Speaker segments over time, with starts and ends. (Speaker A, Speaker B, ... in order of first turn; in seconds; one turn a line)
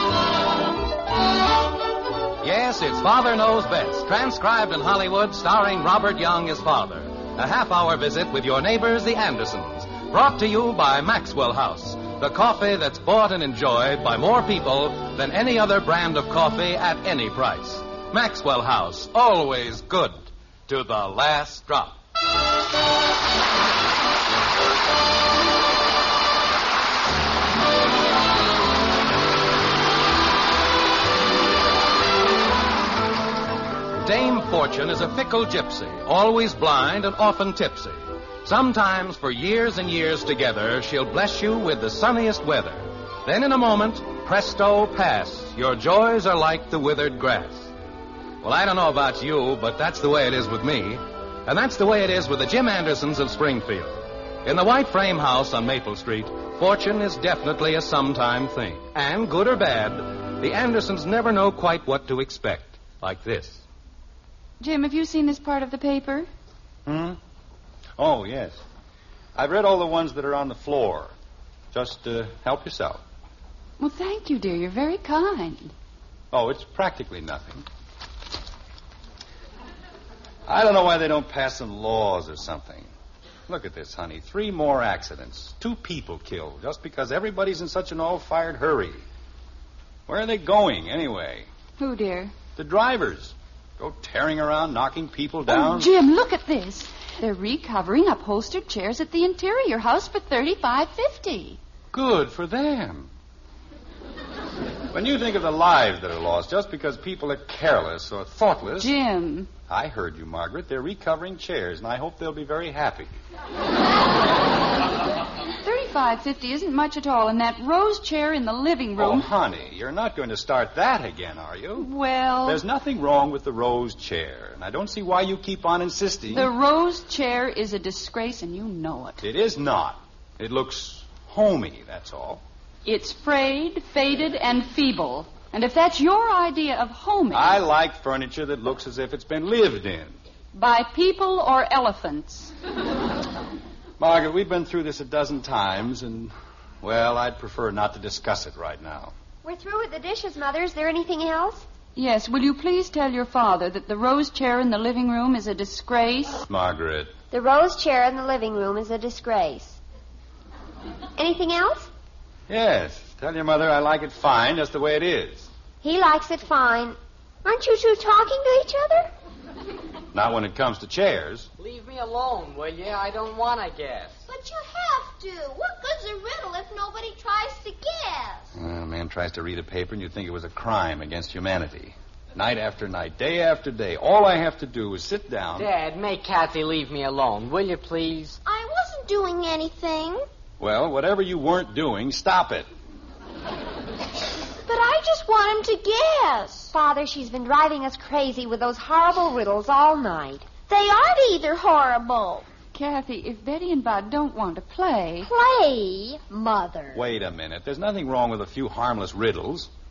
Speaker A: 2.4-22.0
Speaker A: 34.0-47.7
Speaker A: 48.4-63.6
Speaker B: 64.6-66.3
Speaker C: 66.8-67.2
Speaker C: 68.0-68.6
Speaker C: 69.3-71.1
Speaker C: 71.7-73.0
Speaker B: 73.8-75.7
Speaker C: 76.3-77.7
Speaker C: 80.5-82.9
Speaker C: 83.5-89.0
Speaker C: 90.1-91.5
Speaker B: 91.8-92.3
Speaker C: 92.5-95.9
Speaker B: 95.5-101.6
Speaker C: 101.9-103.1
Speaker C: 104.9-108.9
Speaker B: 108.8-109.5
Speaker C: 109.7-113.1
Speaker B: 115.6-119.3
Speaker C: 119.0-121.9
Speaker B: 121.8-122.6
Speaker C: 122.4-126.5
Speaker B: 126.3-129.2
Speaker C: 129.2-132.4
Speaker B: 132.8-137.6
Speaker C: 137.3-140.2
Speaker B: 140.5-142.5
Speaker C: 144.0-149.1
Speaker D: 149.4-151.7
Speaker B: 151.9-156.4
Speaker C: 156.5-157.1
Speaker D: 157.3-159.8
Speaker D: 161.2-161.9
Speaker C: 162.5-165.5
Speaker D: 165.8-169.1
Speaker C: 170.1-171.5
Speaker E: 171.6-174.2
Speaker F: 174.3-178.5
Speaker C: 178.5-185.7
Speaker E: 185.6-188.4
Speaker F: 188.4-190.2
Speaker C: 190.6-192.7
Speaker F: 194.7-196.7
Speaker D: 196.7-200.4
Speaker F: 200.7-202.5
Speaker B: 202.7-205.3
Speaker D: 205.2-207.0
Speaker C: 206.9-209.7